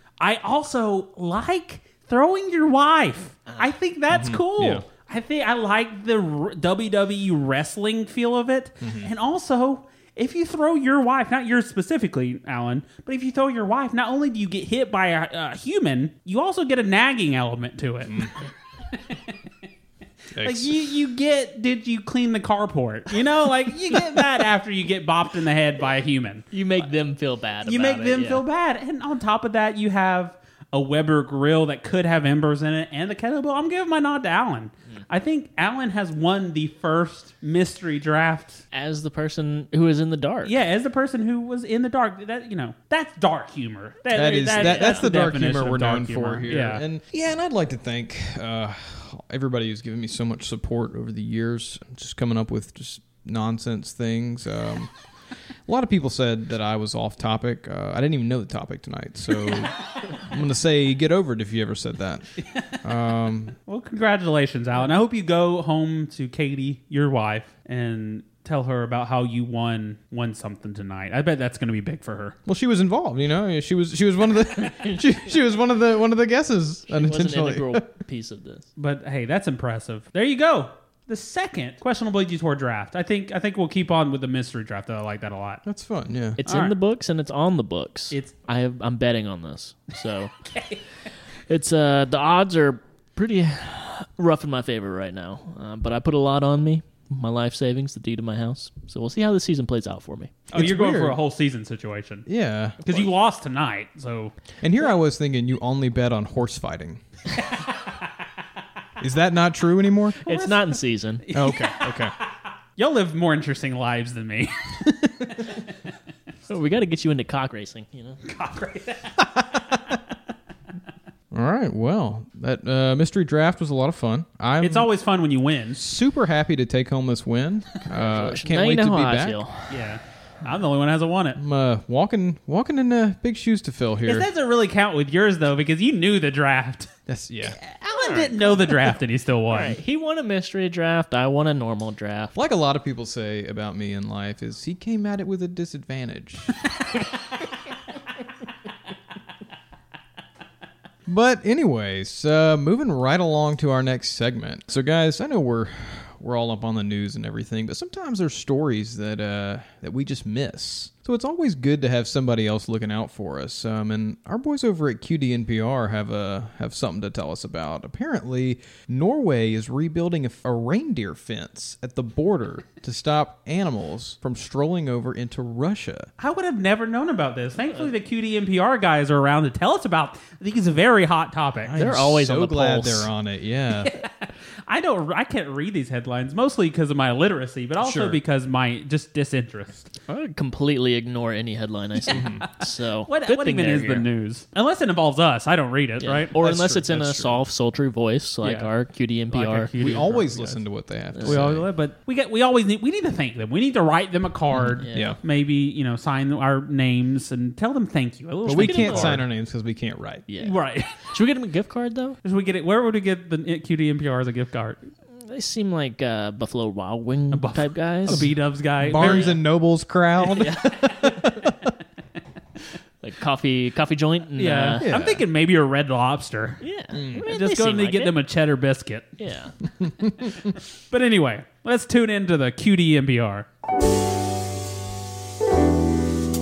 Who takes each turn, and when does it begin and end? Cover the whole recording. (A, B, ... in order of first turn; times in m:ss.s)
0:00.2-0:18.4 A
0:04.1-0:04.9 B
0:08.8-0:09.1 B
0:18.1-0:18.3 B
0:18.9-0:19.4 A
0:20.4-0:20.7 B
0:20.4-0:26.9 A
0:26.5-0:28.4 C
0:27.6-0:38.6 A
0:38.7-0:40.6 C
0:40.4-0:46.8 A
0:44.1-0:54.9 B
0:44.6-0:45.1 C
0:55.7-1:02.3 B
1:02.8-1:03.6 B
1:03.7-1:12.4 A
1:12.5-1:17.9 B
1:16.9-1:18.7 C
1:18.8-1:25.6 A
1:25.7-1:26.4 B
1:26.4-1:30.3 C
1:26.4-1:26.8 A
1:30.5-1:30.8 A
1:31.5-1:40.4 C
1:40.5-1:41.2 B
1:40.5-1:42.3 A
1:42.3-1:43.1 B
1:42.8-1:44.4 A
1:44.6-1:47.0 B
1:49.0-1:50.6 B
1:50.2-1:51.2 C
1:51.2-1:52.1 A
1:51.3-1:52.1 B
1:52.8-1:55.6 A
1:56.5-1:58.2 C
1:58.2-1:59.8 A
2:01.3-2:04.9 B
2:04.6-2:05.8 A
2:05.8-2:09.4 B
2:07.9-2:09.8 C
2:09.7-2:11.4 A
2:11.4-2:14.3 B
2:14.1-2:16.9 A
2:17.1-2:17.6 B
2:17.6-2:19.8 A
2:19.5-2:22.4 C
2:22.4-2:26.6 B
2:31.1-2:56.1 B
2:56.2-3:01.8 A
3:01.6-3:03.9 B
3:01.8-3:03.1 C
3:03.8-3:09.9 A
3:07.8-3:08.2 B
3:10.1-3:14.1 C
3:12.1-3:12.5 A
3:12.1-3:12.5 B
3:13.1-3:16.4 A
3:16.0-3:20.5 C
3:16.4-3:17.4 B
3:18.4-3:18.7 A
3:19.3-3:20.5 A
3:19.8-3:21.7 B
3:21.1-3:21.4 C
3:21.2-3:29.2 A
3:24.6-3:25.2 C
3:24.9-3:25.2 B
3:28.4-3:30.3 B
3:28.5-3:29.2 C
3:30.3-3:30.6 C
3:30.4-3:30.9 A
3:31.1-3:32.2 C
3:32.2-3:34.9 A
3:35.2-3:38.3 C
3:37.3-3:39.4 A
3:38.1-3:41.7 B
3:38.9-3:39.4 C
3:40.4-3:40.6 C
3:43.0-3:44.9 C
3:44.4-3:46.6 A
3:44.8-3:45.2 B
3:46.6-3:48.2 C
3:46.9-3:47.3 B
3:47.2-3:49.2 A
3:49.2-3:49.6 C
3:49.8-3:50.3 B
3:50.9-3:53.5 A